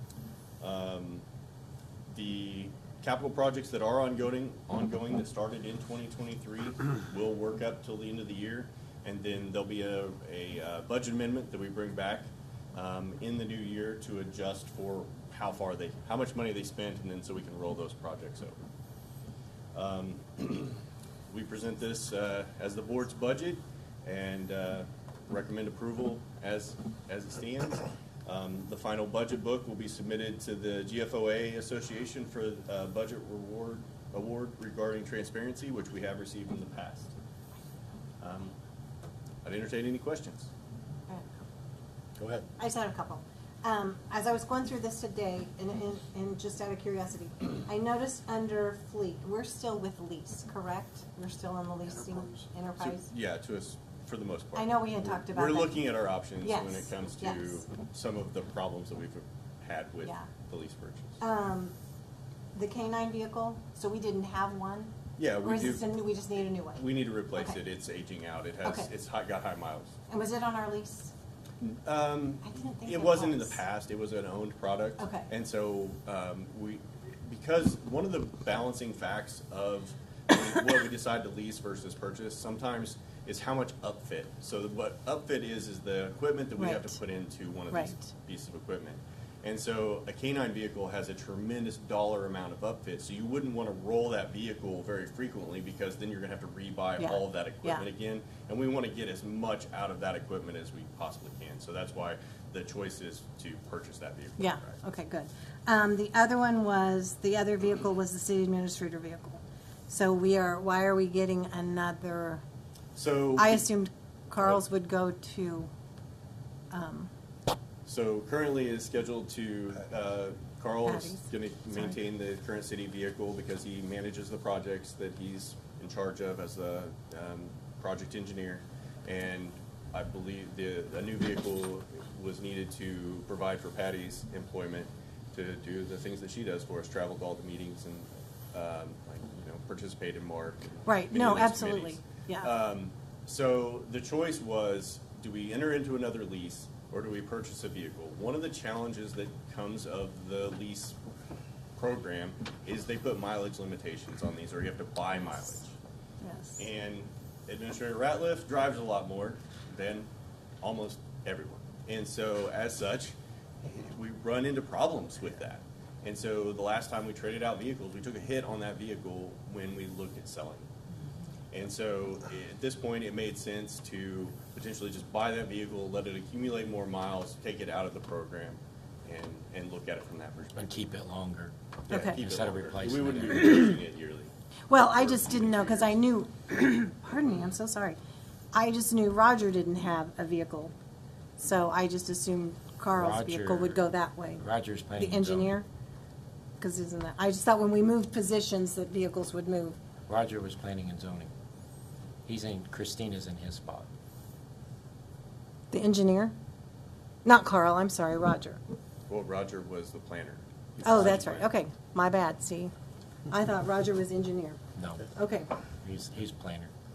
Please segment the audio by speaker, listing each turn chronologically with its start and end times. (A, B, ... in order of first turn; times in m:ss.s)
0:00.6-0:01.2 A
0:02.1-0:18.6 A
0:19.7-0:37.1 A
0:38.2-0:38.5 A
0:39.4-0:40.5 A
0:42.6-0:53.1 B
0:52.8-1:01.2 A
0:54.6-0:57.6 B
1:00.0-1:00.3 B
1:01.2-1:01.8 B
1:02.6-1:07.6 B
1:05.2-1:05.9 A
1:06.8-1:09.9 A
1:08.6-1:08.9 B
1:10.1-1:11.1 B
1:11.6-1:44.8 A
1:12.4-1:13.6 B
1:15.0-1:15.3 B
1:26.6-1:27.0 B
1:27.7-1:28.0 B
1:37.0-1:37.8 B
1:44.4-1:52.4 B
1:53.0-1:53.7 A
1:53.4-1:55.7 B
1:56.7-1:57.1 B
1:57.9-2:31.0 A
2:00.8-2:01.9 B
2:20.9-2:22.5 B
2:31.8-2:35.7 A
2:36.2-2:36.6 B
2:36.6-2:40.1 A
2:40.6-2:50.7 A
2:51.5-3:00.9 A
3:00.6-3:03.8 C
3:01.9-3:04.3 A
3:01.9-3:02.2 B
3:04.7-3:08.0 B
3:04.9-3:06.0 A
3:08.5-3:10.7 B
3:11.4-3:14.4 B
3:12.9-3:13.8 C
3:14.4-3:15.5 C
3:15.0-3:15.7 B
3:16.6-3:19.8 B
3:20.1-3:21.3 C
3:22.3-3:23.9 C
3:25.7-3:26.3 B
3:27.2-3:28.6 B
3:29.1-3:31.5 A
3:30.8-3:32.7 B
3:33.3-3:34.6 B
3:34.8-3:35.1 C
3:35.1-3:35.5 B
3:35.8-3:36.7 C